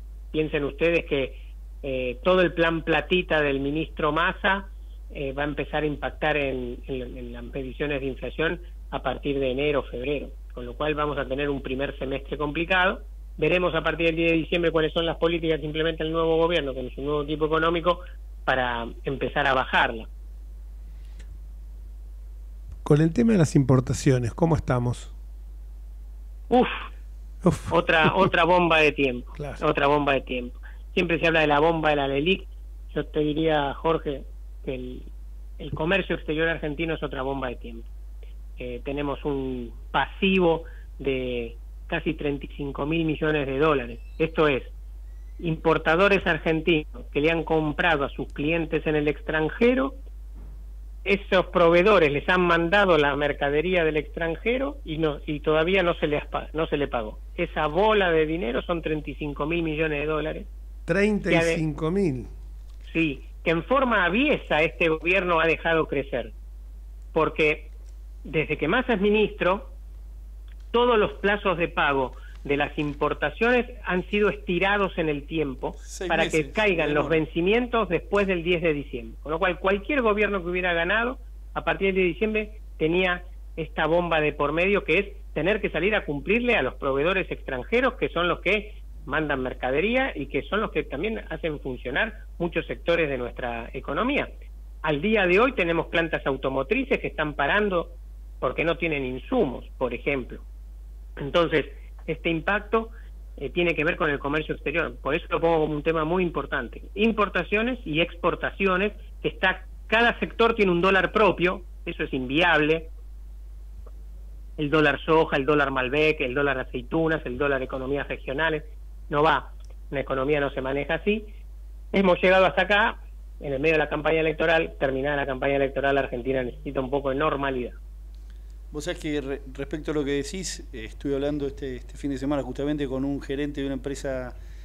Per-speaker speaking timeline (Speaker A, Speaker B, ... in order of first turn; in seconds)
Speaker A: 0.3-20.1, 26.5-26.9, 27.7-37.9, 38.6-44.7, 45.4-50.0, 51.0-60.5, 61.3-61.6, 62.9-66.3, 67.1-67.7, 68.2-69.7, 70.7-94.3, 94.8-100.4, 101.2-112.9, 114.6-121.3, 121.9-127.8
Speaker B: 22.8-25.1, 27.4-28.3, 29.4-29.6, 60.9-62.3
Speaker C: 75.8-77.2, 128.7-134.3